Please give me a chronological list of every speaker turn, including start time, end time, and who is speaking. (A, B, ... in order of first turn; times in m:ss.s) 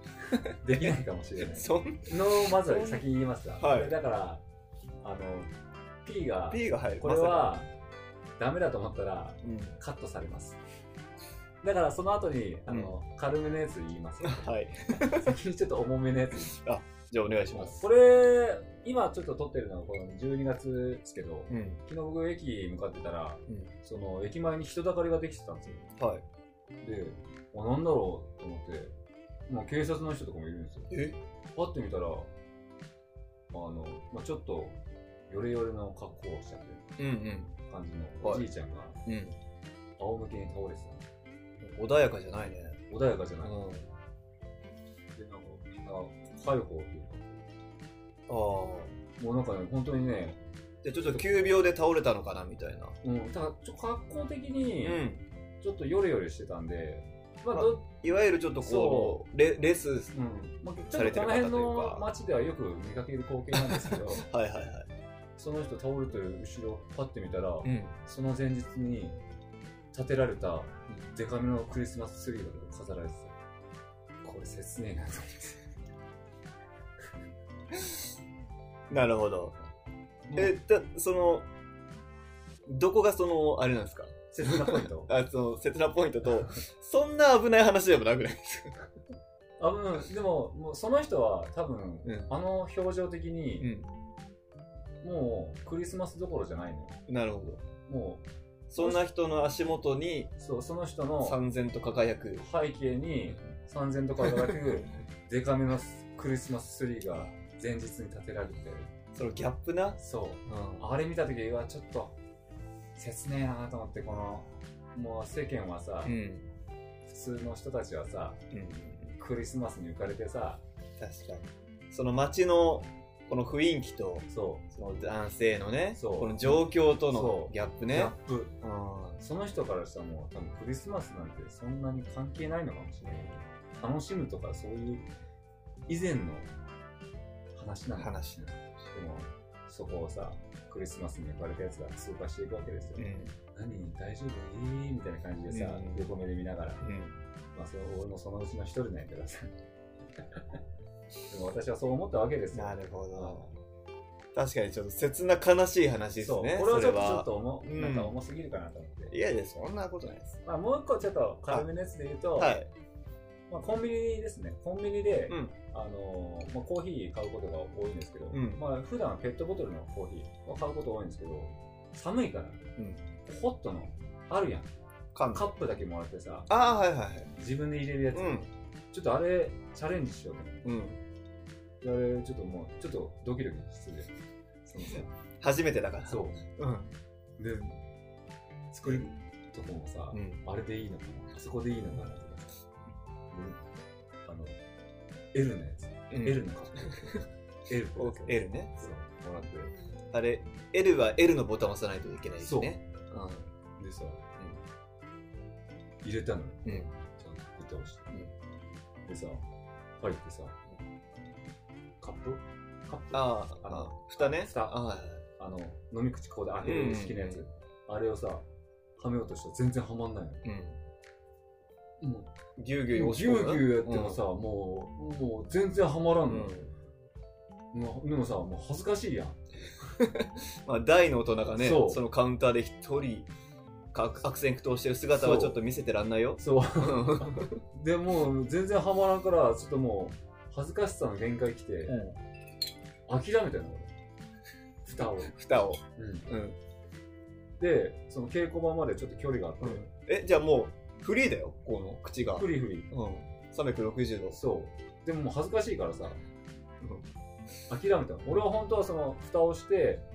0:00.6-0:04.4 A
0:01.4-0:03.0 B
0:03.6-0:04.0 B
0:05.0-0:05.5 A
0:06.0-0:07.7 A
0:06.5-0:07.6 B
0:08.4-0:10.6 A
0:09.4-0:09.8 B
0:11.6-0:16.6 A
0:12.7-0:13.0 B
0:14.2-0:15.4 B
0:16.5-0:17.9 B
0:17.5-0:25.9 A
0:21.5-0:21.8 B
0:23.5-0:23.7 B
0:26.0-0:26.2 B
0:26.8-0:28.9 A
0:29.5-0:30.9 A
0:30.9-0:31.2 B
0:31.6-0:32.3 A
0:33.5-0:37.1 A
0:37.0-0:37.5 B
0:37.6-0:39.0 A
0:38.2-0:38.5 B
0:39.0-0:39.4 B
0:40.0-0:41.1 A
0:41.6-0:42.8 B
0:42.9-0:43.5 A
0:43.4-0:43.9 B
0:45.2-0:47.5 A
0:48.3-0:49.0 B
0:49.2-0:50.4 A
0:50.8-0:53.0 B
0:53.0-0:55.1 A
0:54.8-0:55.2 B
0:55.6-0:57.9 A
0:57.5-1:00.2 B
0:58.6-0:59.2 A
1:00.1-1:04.2 A
1:00.9-1:02.1 B
1:03.5-1:04.9 B
1:05.4-1:09.2 A
1:07.6-1:08.0 B
1:09.9-1:13.3 A
1:14.2-1:15.6 A
1:17.7-1:18.0 B
1:18.9-1:19.6 B
1:20.3-1:20.6 A
1:20.4-1:21.5 B
1:22.7-1:28.9 B
1:24.3-1:25.1 A
1:29.6-1:33.7 A
1:32.0-1:32.3 B
1:33.6-1:33.9 B
1:35.0-1:37.0 A
1:37.1-1:37.6 B
1:37.8-1:38.2 A
1:38.7-1:40.3 B
1:40.4-1:41.4 A
1:41.2-1:42.5 B
1:42.4-1:48.9 A
1:47.1-1:47.3 B
1:49.1-1:50.9 B
1:50.0-1:52.2 A
1:53.0-1:56.2 A
1:56.0-1:56.5 B
1:57.1-1:58.4 A
1:58.5-1:59.2 B
1:59.2-2:00.6 A
2:01.0-2:09.2 B
2:04.3-2:04.6 A
2:05.9-2:08.6 A
2:09.2-2:15.1 A
2:13.0-2:13.4 B
2:15.9-2:16.5 A
2:17.5-2:18.2 A
2:18.0-2:18.9 B
2:18.9-2:26.8 A
2:23.0-2:23.4 B
2:25.5-2:26.1 B
2:26.8-2:27.2 B
2:27.5-2:29.5 A
2:31.3-2:33.5 A
2:32.5-2:33.5 B
2:34.4-2:38.2 B
2:36.2-2:39.2 A
2:39.1-2:40.4 B
2:40.4-2:42.6 A
2:42.4-2:42.7 B
2:43.5-2:52.6 A
2:45.3-2:45.6 B
2:48.3-2:48.6 B
2:52.8-2:53.0 B
2:53.3-2:54.7 A
2:55.1-2:55.5 B
2:55.3-2:56.5 A
2:56.5-2:57.3 B
2:57.4-3:00.6 A
2:58.1-2:58.5 B
3:00.6-3:01.0 B
3:01.8-3:04.1 A
3:04.7-3:06.9 B
3:06.1-3:06.4 A
3:07.4-3:07.8 A
3:08.7-3:12.6 A
3:08.8-3:09.1 B
3:10.1-3:10.4 B
3:13.3-3:13.6 A
3:14.3-3:14.6 A
3:15.3-3:19.7 A
3:16.1-3:17.2 B
3:18.0-3:18.9 B
3:20.1-3:23.5 B
3:22.4-3:22.8 A
3:23.8-3:24.3 A
3:26.0-3:28.1 A
3:26.6-3:26.9 B
3:29.1-3:29.4 A
3:30.0-3:30.6 A
3:32.0-3:34.8 A
3:33.1-3:35.2 B
3:35.4-3:38.4 A
3:36.6-3:37.4 B
3:39.0-3:40.4 A
3:40.4-3:40.8 B
3:42.0-3:42.3 A
3:42.6-3:44.2 B
3:42.9-3:46.6 A
3:46.3-3:46.7 B
3:47.7-3:49.4 A
3:50.0-3:53.3 B
3:51.6-3:52.0 A
3:53.9-3:57.6 B
3:55.2-3:55.6 A
3:56.4-4:02.0 A
4:01.9-4:02.2 B
4:03.1-4:03.9 A
4:04.8-4:05.3 A
4:05.3-4:06.6 B
4:06.0-4:06.3 A
4:07.6-4:09.8 A
4:09.6-4:14.4 B
4:12.4-4:12.9 A
4:14.3-4:16.2 A
4:17.7-4:20.0 A